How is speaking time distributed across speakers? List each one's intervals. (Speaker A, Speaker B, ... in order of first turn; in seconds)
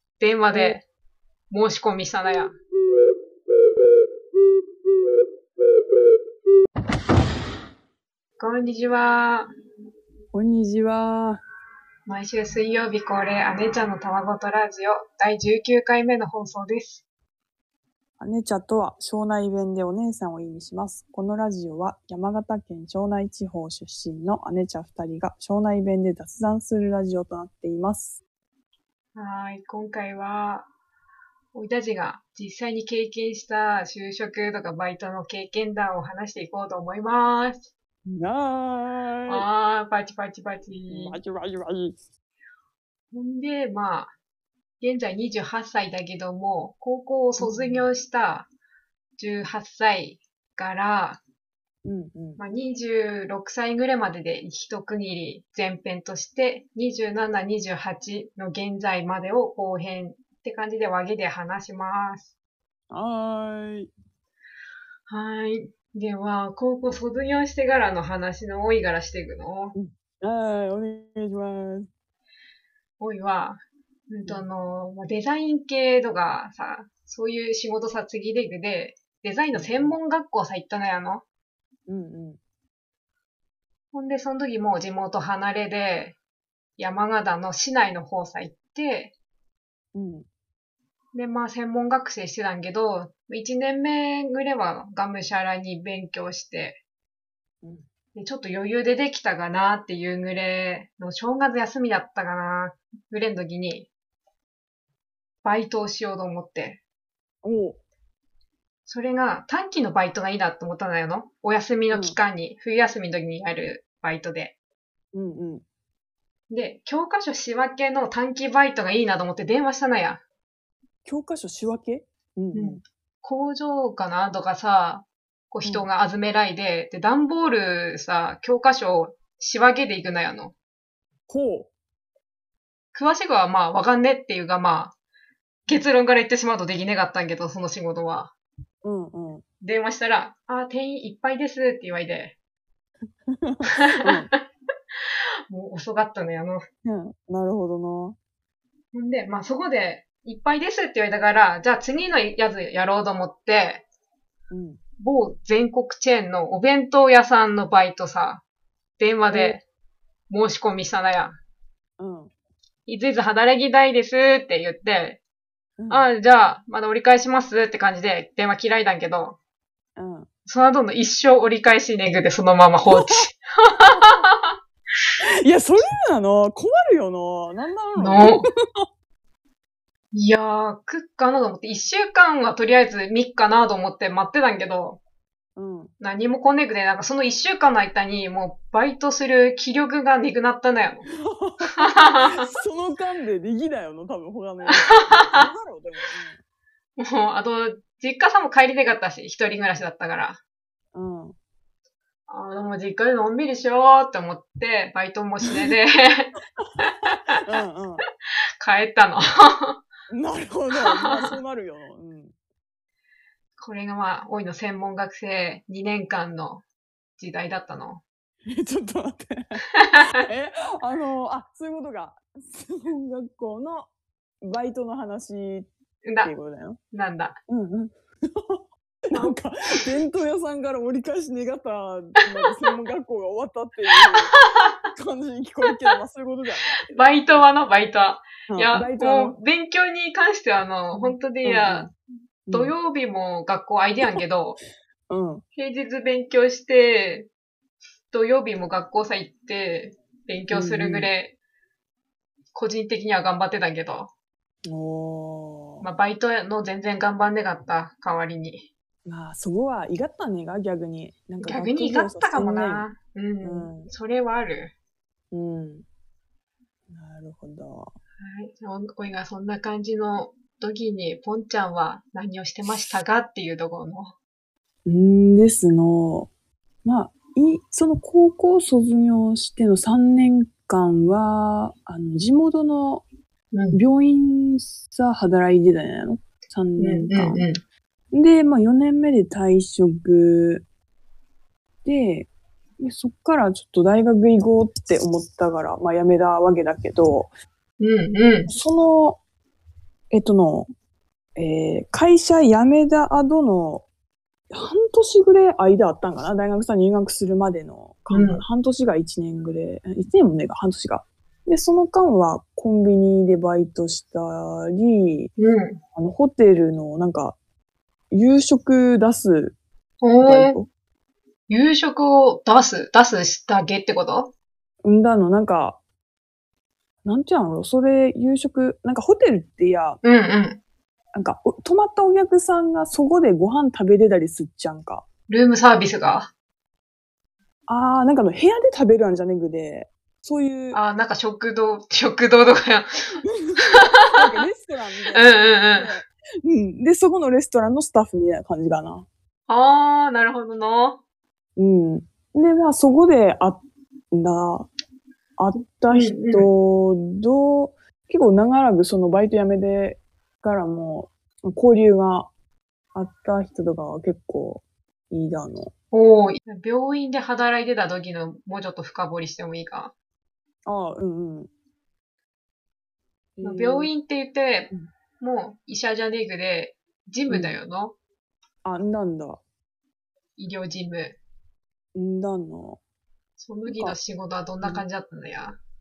Speaker A: 0.2-0.8, 1.5-2.5, 8.4-9.5, 12.1-17.0, 29.1-30.7, 31.5-37.7, 39.3-41.2, 43.1-44.1, 44.8-48.5, 49.2-51.2, 52.4-62.3, 65.1-69.7, 73.0-81.2, 83.9-86.2, 86.8-89.1, 91.1-96.8, 98.1-103.9, 105.4-106.8, 108.8-114.5, 116.5-120.2, 122.5-130.5, 132.9-134.9, 135.7-138.3, 139.6-142.3, 145.5-146.6, 148.9-153.8, 155.0-158.4, 159.0-159.6, 160.3-161.4, 162.8-165.2, 165.9-169.4, 170.4-174.5, 177.9-178.5, 180.1-185.0, 186.0-191.1, 191.8-192.4, 194.7-195.5, 197.0-200.4, 202.3-206.3, 206.8-207.2, 208.6-209.8, 210.8-211.2, 213.6-216.6, 217.2-218.0, 226.0-226.3, 226.9-227.3, 234.0-234.7, 236.9-241.9, 242.5-244.6, 245.5-247.3, 248.1-251.3, 252.5-254.1, 255.8-258.7, 261.4-264.7, 268.2-274.1, 283.5-283.8, 286.8-287.6, 297.8-298.5, 308.1-308.4, 315.4-315.8, 320.0-320.6, 321.5-324.3, 330.0-330.6, 335.3-336.3, 340.7-344.0, 345.1-345.9, 349.5-351.0, 355.9-356.5, 365.9-369.9, 373.4-377.9, 380.4-381.2, 383.4-385.6
Speaker B: 0.5-0.8, 10.3-11.4, 18.2-28.2, 38.0-39.5, 40.9-42.0, 47.4-47.9, 51.8-52.4, 62.9-63.9, 69.7-71.9, 79.5-80.0, 81.9-82.4, 89.9-90.3, 107.4-107.8, 111.9-112.2, 115.1-115.6, 121.0-122.8, 131.3-131.7, 138.8-139.4, 143.3-144.3, 146.8-148.2, 154.5-154.8, 159.3-159.6, 162.0-162.3, 165.8-166.1, 170.0-170.3, 172.9-173.1, 175.2-178.8, 185.6-185.9, 191.1-196.4, 200.9-201.3, 207.4-208.0, 210.1-212.3, 218.5-219.6, 220.2-223.9, 224.4-225.7, 226.2-226.8, 227.5-234.3, 234.9-236.8, 238.5-239.4, 240.9-241.9, 242.5-242.7, 245.1-245.4, 250.5-251.1, 254.7-255.9, 259.1-262.9, 263.4-263.9, 265.3-265.9, 266.9-267.9, 274.9-276.3, 276.8-283.0, 283.7-287.4, 288.1-290.6, 291.8-292.3, 292.8-297.3, 298.5-299.2, 300.1-300.7, 301.4-303.9, 304.5-315.3, 315.9-317.4, 318.1-319.6, 320.2-320.7, 324.8-325.8, 327.0-330.0, 331.1-335.0, 337.7-340.8, 343.3-349.1, 351.6-354.7, 355.4-362.3, 362.9-365.7, 370.6-371.5, 373.4-373.9, 377.3-377.6, 378.6-379.4, 381.9-382.8, 383.7-384.0, 384.6-384.9